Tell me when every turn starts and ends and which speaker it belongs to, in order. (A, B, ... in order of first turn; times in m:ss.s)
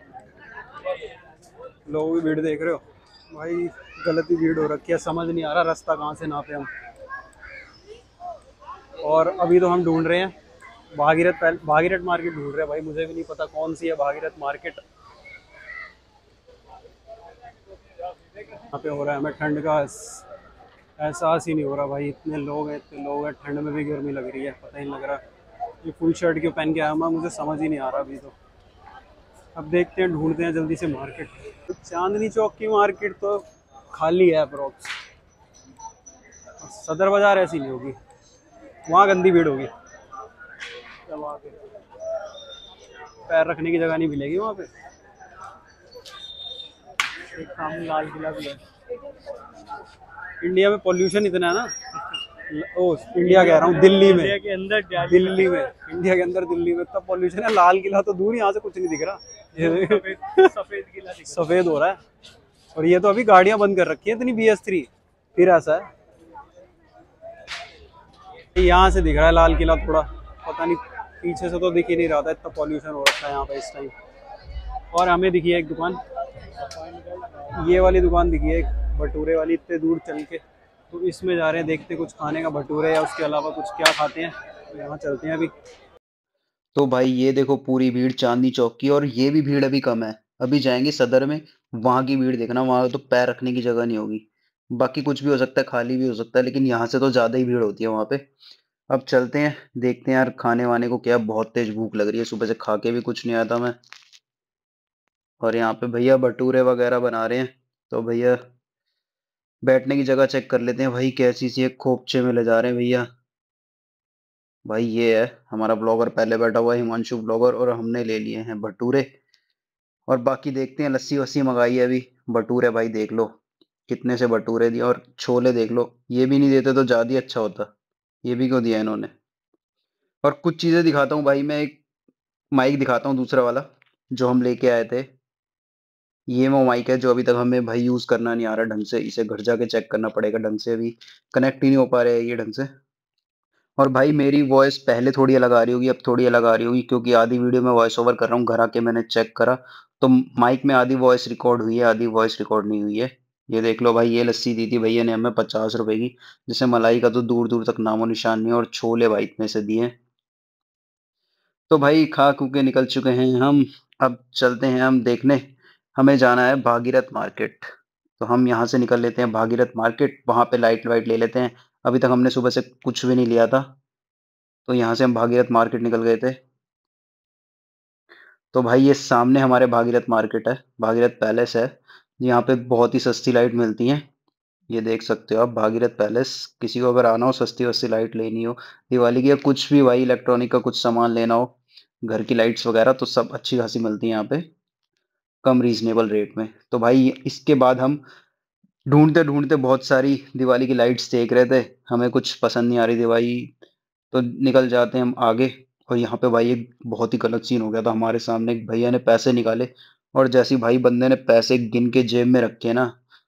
0:01.9-0:06.7 A
0:09.0-0:10.3 A
0:10.9-0:14.8 A
0:18.7-0:20.2 A
0:21.0-0:25.2 A
0:25.8-0:28.3 A
0:29.6-0:34.9 A
0:36.6-0:38.0 A
0:38.9-0:39.7 A
0:41.1-0:41.7 B
0:43.3-0:44.7 A
0:47.3-0:48.6 B
0:50.4-0:51.7 A
0:52.5-0:54.3 A
0:53.2-0:55.5 B
0:54.9-1:00.5 A
0:59.6-1:01.5 B
1:01.2-1:02.0 A
1:02.7-1:05.9 A
1:08.6-1:13.9 A
1:14.9-1:16.0 A
1:16.7-1:17.5 B
1:17.5-1:25.5 A
1:26.8-1:38.2 C
1:38.9-1:43.8 C
1:45.4-1:48.4 C
1:49.6-1:53.0 C
1:54.6-1:59.1 C
2:00.1-2:07.7 C
2:08.2-2:09.1 C
2:10.2-2:11.8 C
2:12.5-2:15.1 C
2:16.3-2:22.7 C
2:23.8-2:39.9 C
2:41.7-2:47.7 C
2:48.2-2:53.7 C
2:54.7-2:56.4 C
2:58.5-3:04.1 C
3:04.7-3:14.5 C
3:15.4-3:18.0 C
3:18.9-3:23.5 C
3:24.1-3:32.9 C